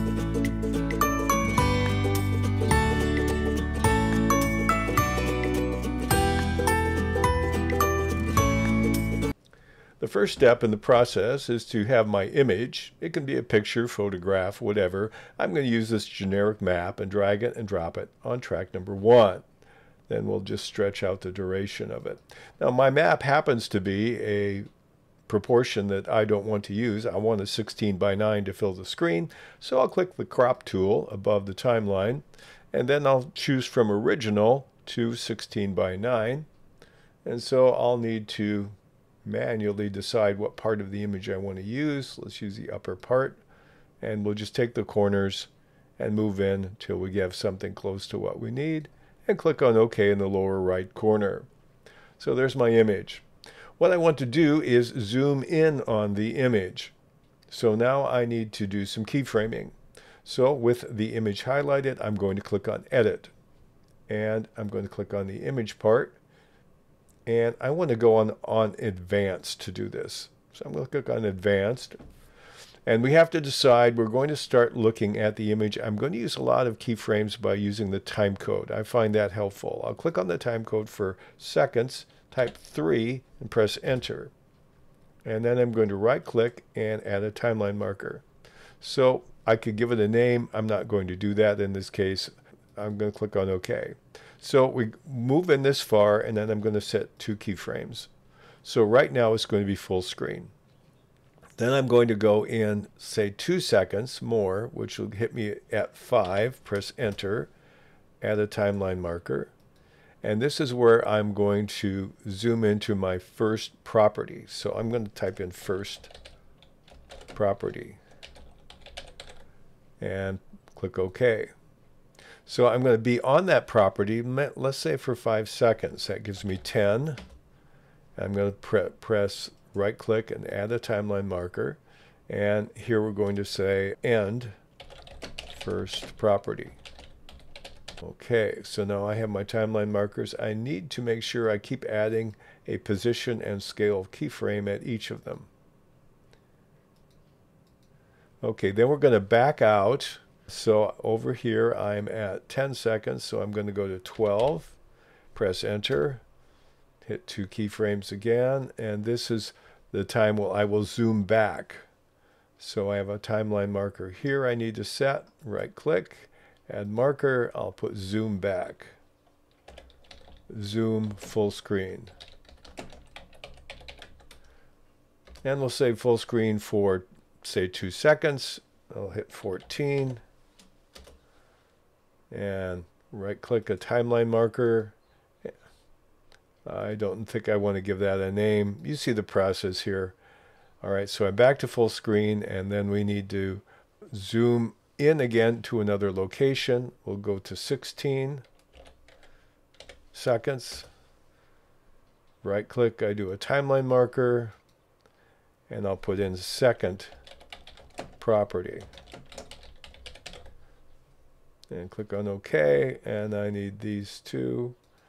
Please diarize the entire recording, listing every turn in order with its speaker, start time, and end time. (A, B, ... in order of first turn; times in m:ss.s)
0:10.0-0:19.4 A
0:20.1-0:24.7 A
0:25.3-0:36.5 A
0:37.2-0:43.4 A
0:44.0-0:51.5 A
0:52.2-0:53.2 A
0:53.8-0:57.0 A
0:57.5-1:03.3 A
1:04.1-1:06.2 A
1:07.2-1:12.0 A
1:12.8-1:24.3 A
1:25.2-1:28.2 A
1:28.8-1:38.1 A
1:38.6-1:40.5 A
1:41.6-1:47.5 A
1:48.2-1:49.5 A
1:50.2-1:56.1 A
1:57.3-1:58.0 A
2:00.0-2:01.5 A
2:02.4-2:07.2 A
2:08.2-2:14.6 A
2:15.5-2:16.8 A
2:18.0-2:25.5 A
2:28.4-2:34.8 A
2:35.3-2:36.2 A
2:37.0-2:41.9 A
2:42.6-2:48.9 A
2:50.5-2:52.1 A
2:55.4-3:00.2 A
3:02.3-3:05.5 A
3:06.6-3:10.2 A
3:10.8-3:18.4 A
3:20.1-3:20.9 A
3:22.4-3:24.6 A
3:25.7-3:27.1 A
3:28.2-3:28.9 A
3:31.7-3:34.8 A